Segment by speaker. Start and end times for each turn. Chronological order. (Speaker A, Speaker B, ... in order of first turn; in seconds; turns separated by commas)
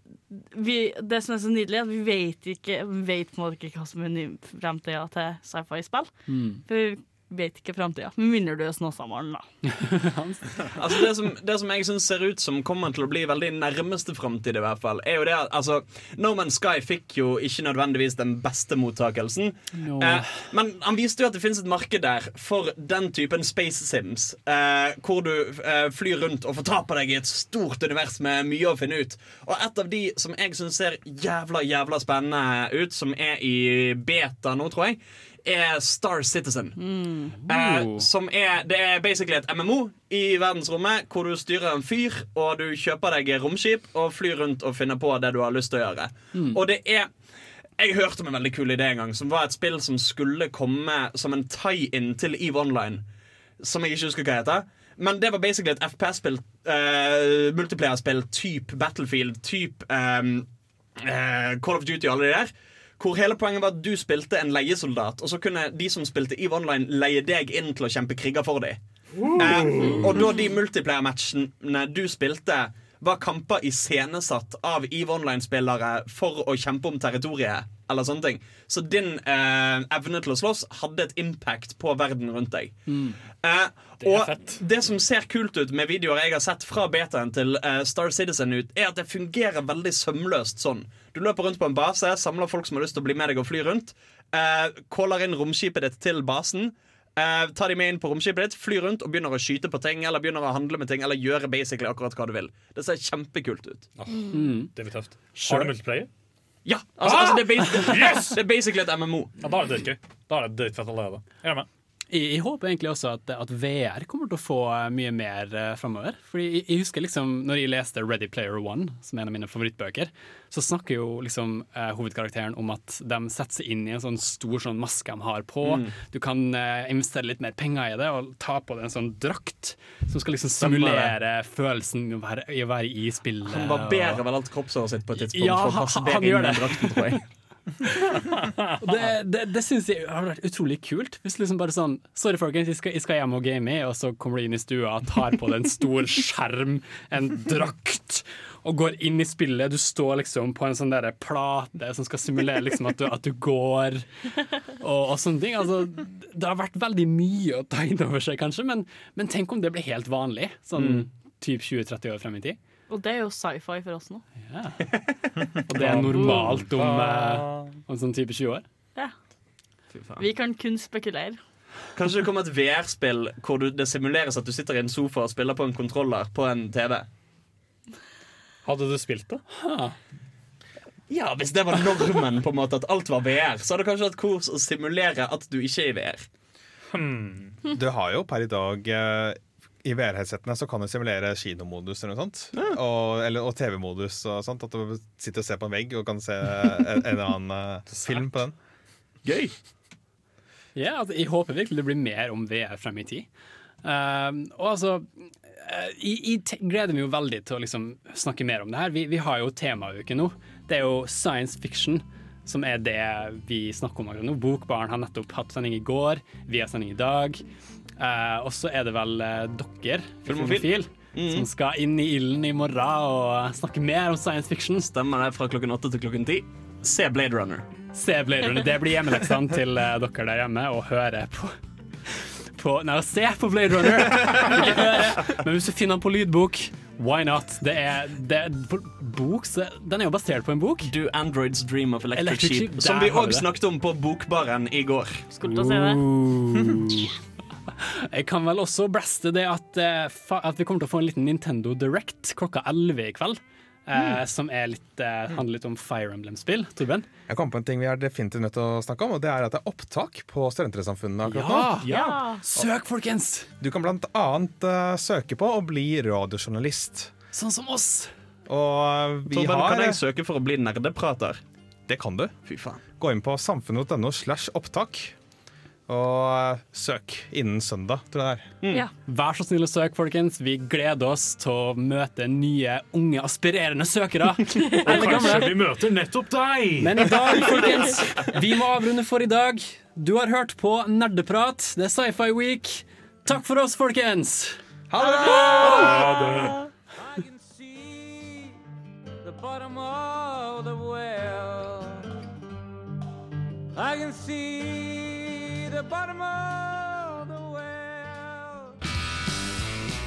Speaker A: 0.3-6.1, Speaker B: 6.3-6.6, Speaker A: 6.7-9.5, Speaker B: 9.7-10.8, Speaker C: 10.7-36.8, Speaker B: 19.7-20.3, Speaker A: 36.8-37.4, Speaker B: 37.5-38.1, Speaker C: 37.5-47.1, Speaker B: 46.3-46.6, Speaker C: 47.8-53.0, Speaker C: 53.6-68.8, Speaker C: 69.3-82.8, Speaker D: 69.3-70.1, Speaker B: 82.9-83.2, Speaker C: 83.4-103.9, Speaker D: 84.0-84.6, Speaker D: 104.0-106.1, Speaker B: 104.3-104.7, Speaker B: 105.3-105.7, Speaker C: 106.6-109.4, Speaker D: 107.0-108.4, Speaker D: 109.4-111.7, Speaker B: 112.1-134.2, Speaker C: 125.6-125.9, Speaker C: 130.6-131.1, Speaker C: 133.5-137.2, Speaker B: 135.3-137.2, Speaker B: 138.8-154.0, Speaker B: 154.8-162.6, Speaker C: 160.8-161.1, Speaker A: 162.9-164.2, Speaker B: 164.4-168.6, Speaker D: 165.8-167.7, Speaker A: 165.9-166.6, Speaker C: 169.9-170.3, Speaker A: 170.2-171.4, Speaker C: 171.9-177.1, Speaker D: 178.6-179.4, Speaker B: 179.5-179.9, Speaker C: 181.1-186.3, Speaker D: 186.9-187.6, Speaker E: 187.7-198.5, Speaker D: 198.0-198.2, Speaker C: 199.2-199.5, Speaker B: 200.8-203.3, Speaker B: 203.8-217.4, Speaker B: 218.0-224.9, Speaker C: 220.3-221.4, Speaker C: 224.8-227.7, Speaker B: 227.9-231.5, Speaker B: 232.1-240.9, Speaker C: 240.8-245.2, Speaker B: 242.1-243.5, Speaker A: 245.3-246.0, Speaker B: 245.4-247.1, Speaker B: 247.7-257.1, Speaker E: 257.3-261.8, Speaker B: 261.2-263.5, Speaker A: 261.8-262.4, Speaker E: 263.6-267.1, Speaker B: 267.3-268.1, Speaker E: 268.5-270.0, Speaker C: 269.3-271.4, Speaker E: 271.9-272.3, Speaker C: 272.4-272.8, Speaker E: 272.9-275.2, Speaker E: 275.9-278.5, Speaker C: 278.6-278.9, Speaker B: 279.1-285.6, Speaker D: 284.9-285.7, Speaker F: 284.9-287.1, Speaker A: 285.0-285.5, Speaker B: 286.8-294.6, Speaker E: 294.9-296.0, Speaker A: 295.0-296.1, Speaker D: 295.5-296.6, Speaker G: 297.0-298.6, Speaker G: 299.2-302.1, Speaker G: 303.8-308.7